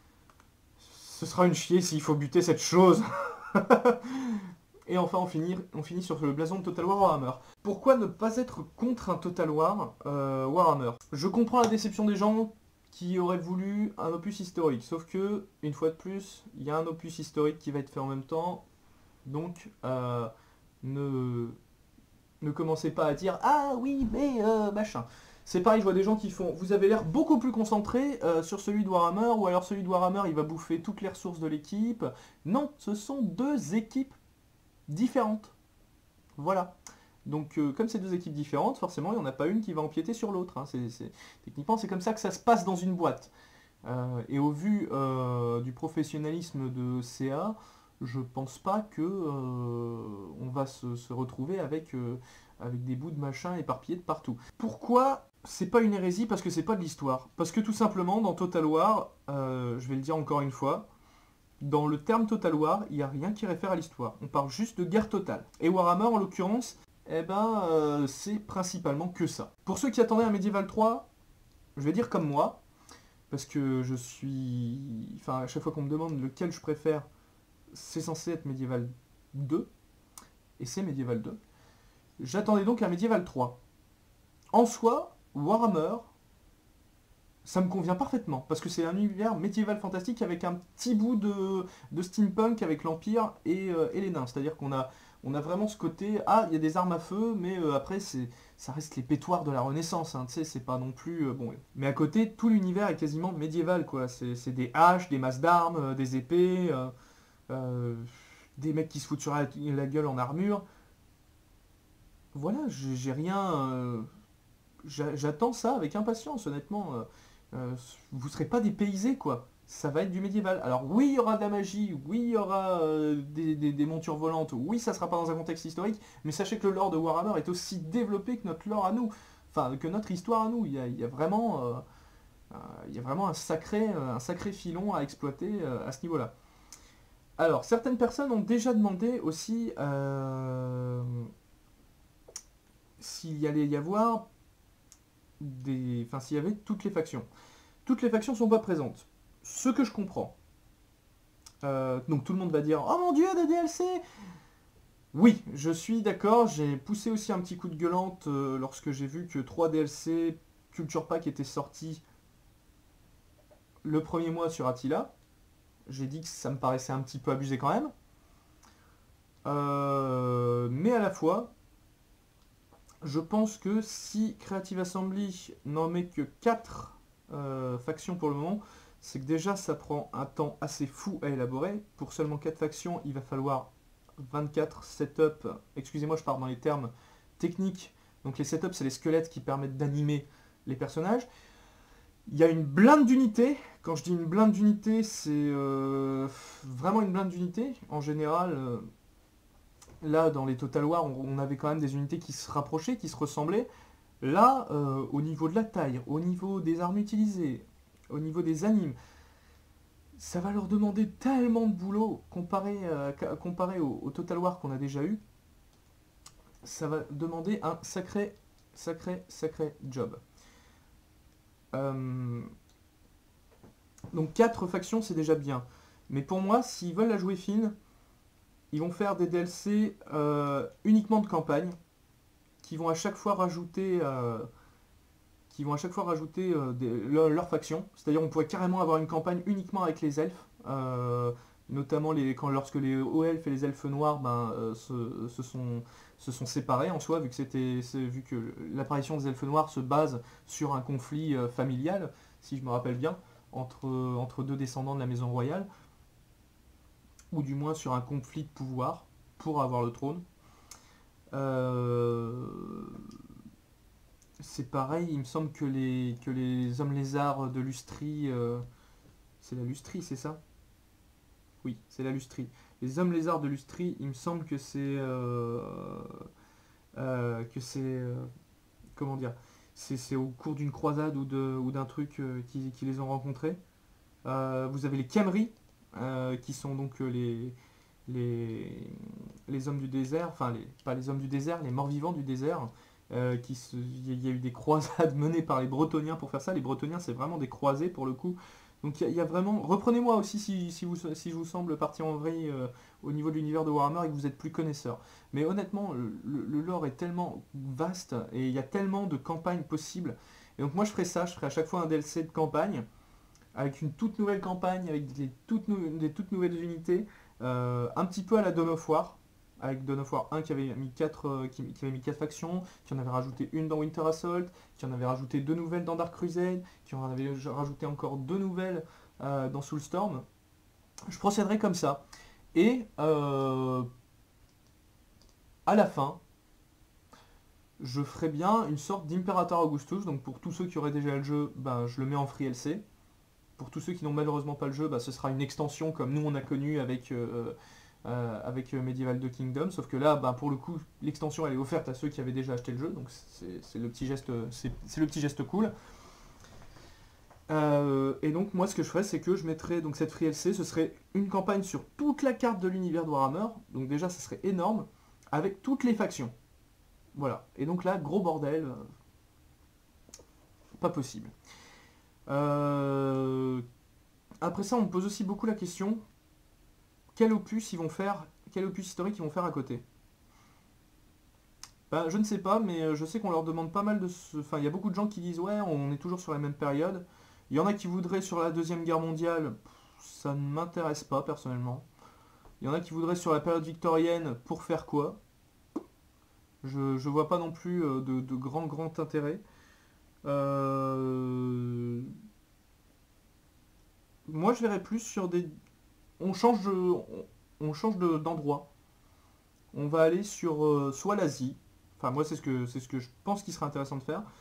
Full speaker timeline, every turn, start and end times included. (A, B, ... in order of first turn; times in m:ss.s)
0:00.8-0:18.6 A
0:19.2-0:20.3 A
0:20.8-0:21.6 A
0:22.4-0:34.2 A
0:34.9-0:35.6 A
0:36.4-0:43.3 A
0:43.8-1:00.9 A
1:01.6-1:11.1 A
1:11.7-1:12.6 A
1:13.3-1:17.1 A
1:17.7-1:19.7 A
1:20.6-1:21.4 A
1:22.2-1:23.6 A
1:24.5-1:26.1 A
1:27.4-1:46.9 A
1:47.5-1:50.6 A
1:52.3-1:54.1 A
1:54.8-2:11.8 A
2:12.5-2:16.3 A
2:17.4-2:21.3 A
2:23.0-2:24.3 A
2:25.4-2:27.3 A
2:27.8-2:30.4 A
2:31.6-2:34.0 A
2:35.1-2:42.0 A
2:43.8-2:45.1 A
2:45.8-2:47.9 A
2:49.4-2:51.5 A
2:53.0-3:11.3 A
3:12.3-3:18.8 A
3:20.0-3:23.7 A
3:24.2-3:29.0 A
3:30.2-3:35.2 A
3:36.6-3:40.2 A
3:41.7-3:42.5 A
3:44.1-3:47.7 A
3:48.7-3:51.8 A
3:52.6-3:54.5 A
3:55.5-4:15.7 A
4:17.3-4:20.2 A
4:21.3-4:23.1 A
4:24.4-4:28.6 A
4:29.4-4:30.4 A
4:31.6-4:36.2 A
4:36.9-4:38.3 A
4:39.0-4:43.6 A
4:44.2-5:12.8 A
5:13.5-5:30.2 A
5:31.1-5:32.0 A
5:32.5-5:33.9 A
5:35.6-5:36.2 A
5:37.8-5:42.8 A
5:43.6-5:55.7 A
5:57.5-6:06.3 A
6:07.1-6:08.8 A
6:10.8-6:11.3 A
6:12.3-6:13.6 A
6:14.4-6:16.0 A
6:17.1-6:19.8 A
6:21.9-6:31.8 A
6:32.6-6:35.2 A
6:36.6-6:39.4 A
6:40.2-6:42.1 A
6:44.3-6:45.5 A
6:46.2-6:48.7 A
6:49.7-6:54.2 A